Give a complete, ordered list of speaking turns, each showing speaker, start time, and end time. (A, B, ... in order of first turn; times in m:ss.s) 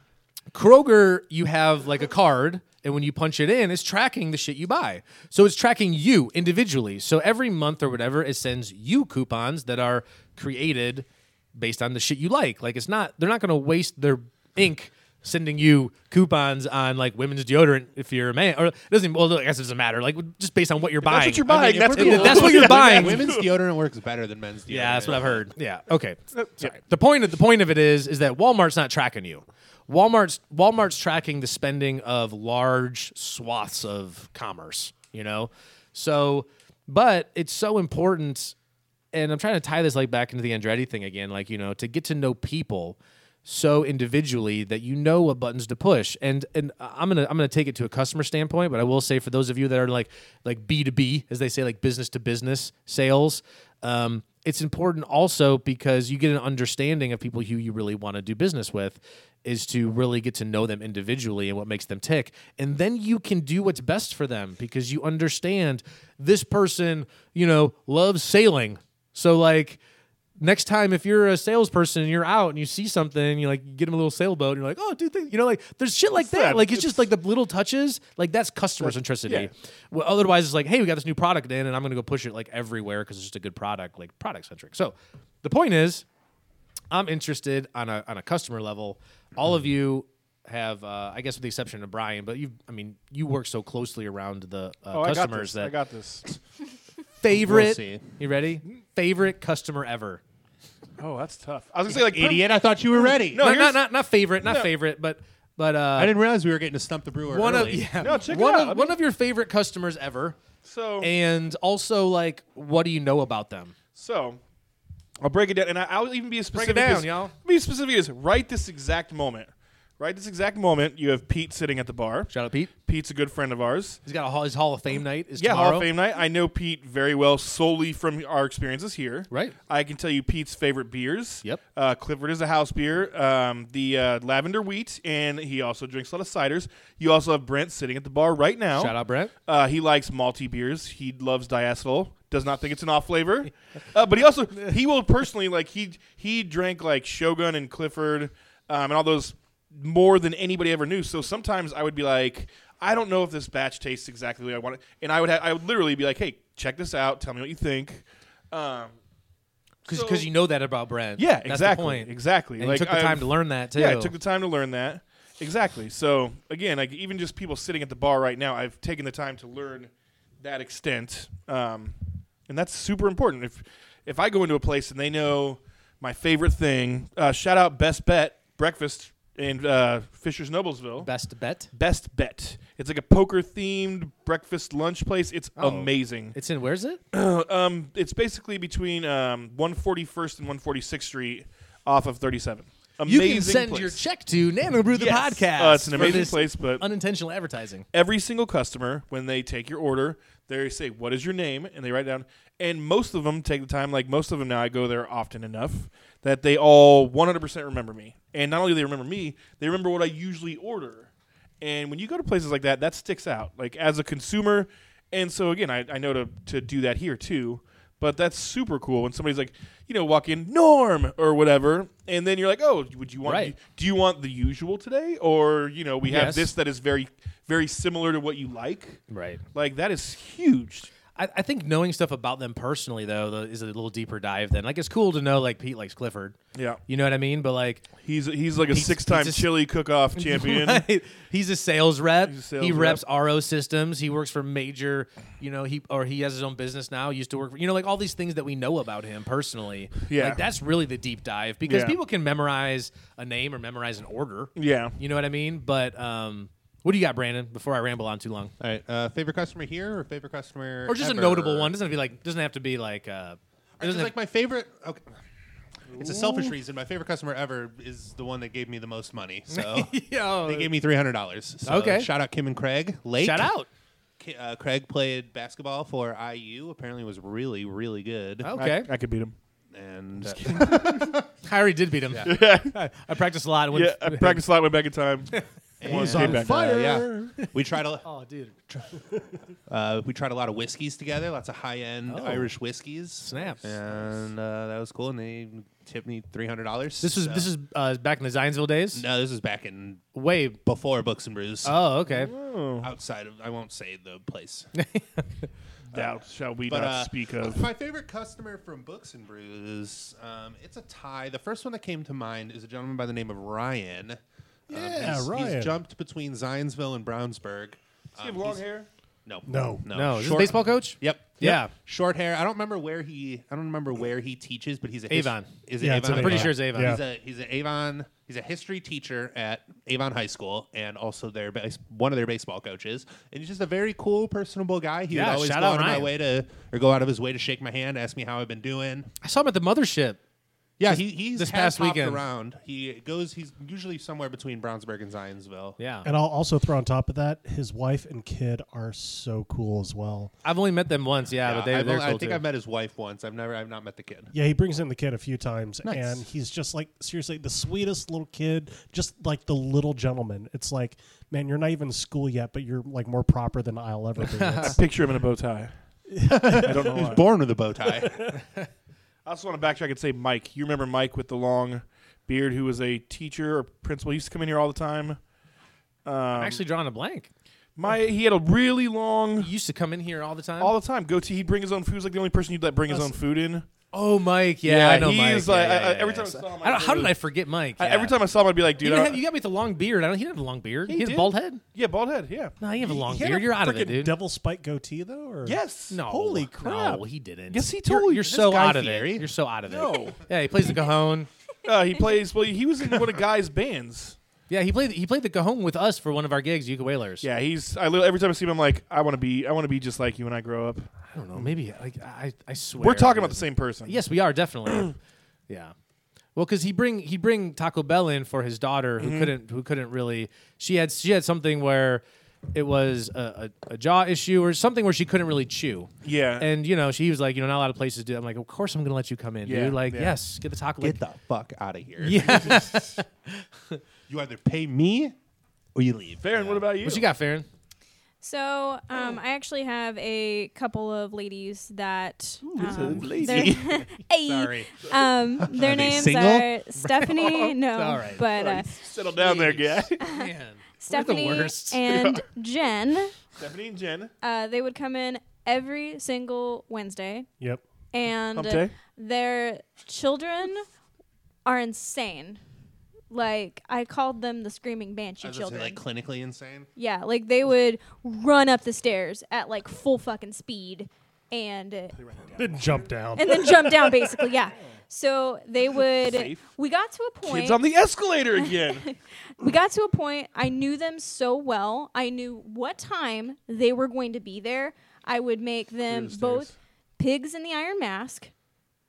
0:00.5-0:23.4 A
0:21.0-0:23.5 B
0:21.4-0:25.5 C
0:24.7-0:38.5 A
0:26.3-0:26.7 B
0:39.1-1:09.8 A
1:10.4-1:26.0 A
1:16.2-1:17.0 B
1:18.8-1:19.5 B
1:26.9-1:35.7 A
1:34.9-1:36.2 B
1:37.2-1:40.2 A
1:37.3-1:38.1 C
1:41.0-1:43.8 B
1:41.9-1:43.6 C
1:43.3-1:46.2 A
1:44.4-1:44.7 B
1:46.0-1:47.9 C
1:47.3-1:50.4 A
1:47.9-1:49.0 B
1:50.6-1:51.1 B
1:51.0-1:53.7 A
1:53.9-1:54.4 B
1:55.2-2:04.0 B
1:56.5-1:57.3 A
2:02.3-2:02.7 A
2:04.0-2:05.9 A
2:05.4-2:18.9 B
2:18.7-2:19.3 A
2:19.4-2:38.9 B
2:39.8-2:40.3 B
2:39.8-2:44.1 A
2:41.2-3:01.1 B
3:01.0-3:01.7 A
3:01.7-3:06.4 B
3:05.6-3:07.0 A
3:07.1-3:14.0 B
3:13.0-3:17.8 A
3:14.9-3:16.8 B
3:17.9-3:31.1 B
3:31.6-3:49.0 B
3:43.2-3:43.5 A
3:46.0-3:46.5 A
3:49.1-3:49.4 A
3:49.5-3:50.9 B
3:51.1-3:57.9 A
3:56.5-3:56.8 B
3:58.0-4:00.8 B
3:58.7-3:59.5 A
4:00.1-4:18.5 A
4:02.2-4:03.0 B
4:10.0-4:10.4 B
4:11.6-4:12.0 B
4:14.6-4:15.0 B
4:18.6-4:21.8 C
4:20.9-4:24.1 A
4:23.8-4:25.2 C
4:25.9-4:33.5 C
4:26.0-4:26.3 A
4:29.5-4:30.7 A
4:31.6-4:32.1 A
4:33.2-4:33.7 A
4:34.2-4:38.5 C
4:38.4-4:38.9 A
4:38.5-4:39.3 B
4:39.7-4:41.3 C
4:40.2-4:41.2 B
4:41.4-4:44.4 A
4:42.2-4:42.8 B
4:43.7-4:46.6 B
4:45.8-4:48.0 C
4:45.8-4:47.4 D
4:48.0-4:48.6 A
4:49.7-4:57.5 C
4:52.1-4:52.5 A
4:53.2-4:53.7 A
4:57.0-4:59.0 A
4:58.9-5:00.0 C
5:00.1-5:00.6 A
5:00.6-5:01.8 C
5:01.6-5:02.3 A
5:02.1-5:02.9 B
5:02.8-5:04.7 C
5:04.7-5:05.5 A
5:05.9-5:07.6 B
5:06.7-5:18.6 C
5:14.7-5:15.7 D
5:18.2-5:18.9 B
5:19.2-5:39.1 C
5:19.5-5:19.8 D
5:19.9-5:21.7 A
5:25.1-5:27.0 A
5:25.8-5:27.0 D
5:35.1-5:36.1 A
5:39.2-5:40.2 A
5:40.8-5:45.8 C
5:40.8-5:42.2 A
5:45.8-5:46.1 A
5:46.0-5:50.3 D
5:50.4-5:52.4 A
5:51.4-5:54.3 C
5:54.3-6:04.8 D
5:55.8-5:56.2 C
6:04.3-6:04.8 A
6:04.6-6:05.7 B
6:06.1-6:07.0 D
6:06.3-6:08.2 C
6:06.6-6:07.3 B
6:09.2-6:15.2 B
6:16.0-6:16.6 B
6:16.3-6:17.3 A
6:17.8-6:19.5 B
6:19.4-6:20.7 A
6:20.6-6:23.6 B
6:23.9-6:28.2 A
6:24.6-6:27.2 B
6:27.8-6:29.2 B
6:28.8-6:31.6 A
6:30.9-6:32.6 B
6:32.6-6:34.2 A
6:32.8-6:37.0 D
6:35.4-6:36.0 B
6:35.9-6:41.3 A
6:37.5-6:38.2 B
6:37.9-6:39.3 C
6:39.7-6:40.2 B
6:41.6-6:44.2 B
6:44.5-6:47.3 A
6:47.2-6:51.5 B
6:51.1-6:54.9 A
6:52.8-6:54.0 B
6:55.5-6:55.7 A
6:56.3-7:11.0 A
6:59.0-6:59.3 B
7:06.0-7:06.5 B
7:09.4-7:10.2 B
7:10.8-7:12.8 C
7:12.0-7:13.8 A
7:14.1-7:15.1 C
7:15.7-7:16.6 C
7:16.2-7:17.1 B
7:16.8-7:17.5 A
7:18.2-7:28.8 E
7:22.5-7:23.5 B
7:22.5-7:23.8 C
7:22.7-7:23.6 A
7:24.2-7:24.7 A
7:25.5-7:26.5 C
7:26.8-7:28.3 A
7:28.3-7:30.0 B
7:29.2-7:31.8 A
7:30.0-7:30.3 E
7:30.8-7:33.2 E
7:31.9-7:32.2 B
7:33.4-7:34.1 B
7:34.2-7:37.3 E
7:37.9-7:40.6 E
7:38.3-7:38.7 B
7:41.4-7:42.4 E
7:43.1-7:45.8 E
7:45.2-7:46.7 C
7:46.8-7:52.0 E
7:52.0-7:52.8 B
7:52.4-7:53.9 D
7:53.1-7:57.6 E
7:56.0-7:56.4 B
7:57.2-7:58.9 B
7:58.3-8:08.3 E
8:05.8-8:06.5 B